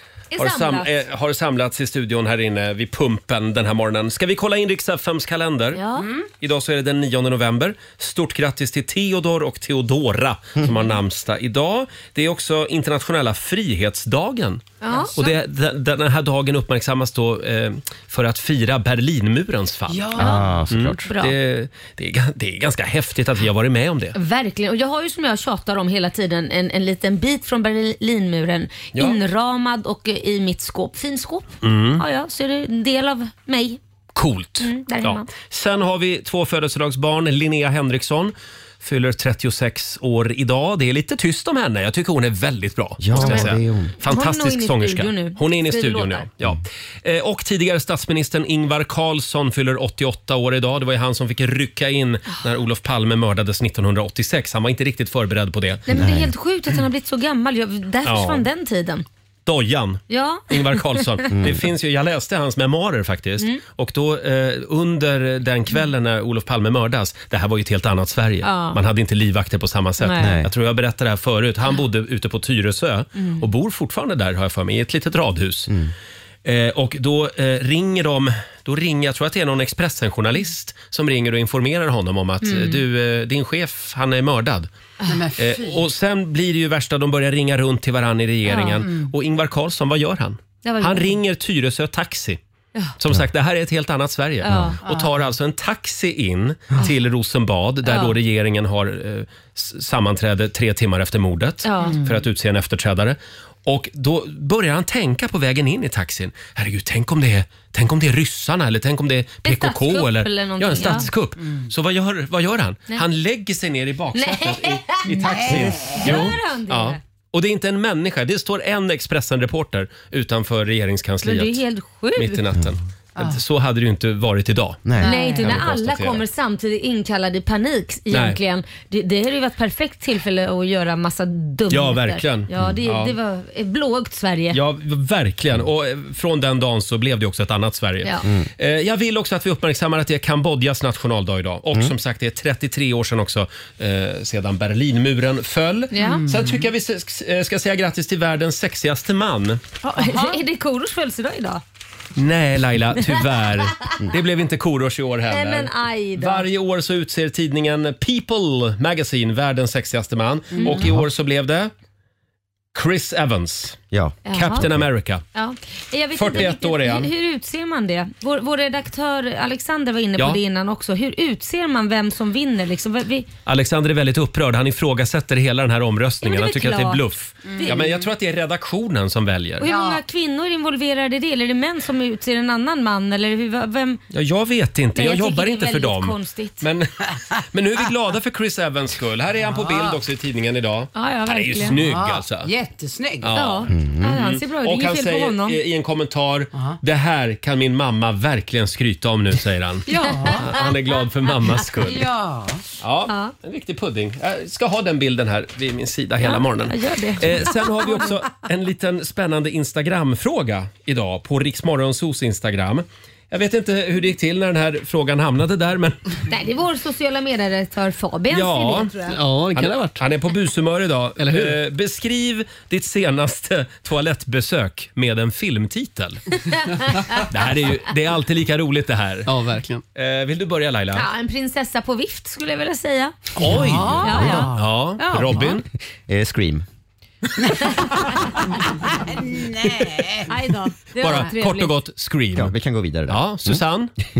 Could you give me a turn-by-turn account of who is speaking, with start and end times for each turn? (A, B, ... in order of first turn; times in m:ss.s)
0:00.3-0:01.0 A
0:00.4-0:05.8 B
0:05.7-0:06.1 A
0:06.0-0:06.3 C
0:06.4-0:24.2 B
0:14.8-0:15.3 A
0:14.9-0:15.1 C
0:19.9-0:20.5 C
0:20.2-0:21.0 D
0:21.1-0:21.3 A
0:24.1-0:33.8 A
0:28.9-0:29.2 B
0:31.6-0:32.0 B
0:34.1-0:55.8 B
0:34.6-0:35.3 A
0:43.0-0:43.9 D
0:43.2-0:46.3 A
0:55.9-0:59.0 A
0:55.9-0:56.3 D
0:58.0-0:58.5 B
0:59.4-1:15.7 B
1:00.1-1:01.3 A
1:01.3-1:01.7 D
1:08.4-1:08.8 A
1:10.0-1:10.4 A
1:10.2-1:10.5 D
1:13.2-1:13.4 A
1:16.4-1:24.7 B
1:22.4-1:22.8 A
1:25.1-1:25.8 C
1:25.4-1:32.4 B
1:28.5-1:28.8 A
1:28.8-1:29.1 C
1:30.6-1:31.2 A
1:33.0-2:01.6 B
1:34.4-1:34.8 A
1:34.8-1:35.2 C
1:37.8-1:38.2 A
1:41.6-1:42.0 A
1:41.8-1:42.2 C
1:49.4-1:51.1 A
1:50.8-1:51.7 C
1:54.1-1:55.2 A
1:55.1-1:56.3 C
1:55.9-1:57.0 A
2:01.2-2:02.4 A
2:02.2-2:04.8 B
2:03.2-2:03.4 C
2:04.8-2:05.1 D
2:05.0-2:05.5 C
2:05.0-2:14.6 A
2:05.4-2:06.2 B
2:08.1-2:08.4 B
2:11.7-2:13.1 B
2:14.5-2:29.6 B
2:18.2-2:18.5 D
2:25.9-2:26.2 A
2:25.9-2:26.7 C
2:29.8-2:31.6 A
2:29.9-2:30.4 C
2:32.2-2:41.7 B
2:33.1-2:33.9 A
2:35.3-2:36.4 A
2:40.5-2:40.8 C
2:40.6-2:40.8 A
2:42.7-2:43.8 B
2:43.9-2:44.8 D
2:44.2-2:44.7 A
2:44.3-2:45.2 B
2:45.3-2:53.3 A
2:46.1-2:47.1 B
2:53.4-2:59.7 B
2:56.2-2:57.0 A
2:57.5-2:57.9 C
2:57.5-2:57.9 A
2:59.6-3:04.0 A
2:59.6-3:00.0 C
3:04.1-3:06.9 B
3:04.9-3:06.7 A
3:07.5-3:12.5 B
3:09.4-3:10.0 C
3:10.9-3:11.8 A
3:11.6-3:13.3 C
3:13.2-3:22.1 B
3:13.3-3:15.6 A
3:13.7-3:14.2 D
3:19.9-3:20.6 C
3:19.9-3:20.7 A
3:21.8-3:22.6 C
3:22.8-3:36.2 B
3:23.1-3:23.3 A
3:26.2-3:28.1 A
3:36.3-3:39.1 A
3:38.3-3:38.9 B
3:39.1-3:40.0 E
3:39.5-3:46.2 B
3:41.2-3:41.6 E
3:46.4-3:47.2 A
3:47.2-3:49.3 B
3:49.2-3:49.8 E
3:49.9-3:51.1 B
3:50.9-3:53.3 A
3:53.4-3:55.5 C
3:53.4-3:55.6 B
3:53.4-3:54.5 D
3:54.0-3:54.5 A
3:56.1-3:56.6 D
3:58.4-4:00.3 C
4:00.3-4:01.7 A
4:01.0-4:02.5 B
4:02.3-4:03.6 D
4:03.1-4:03.9 B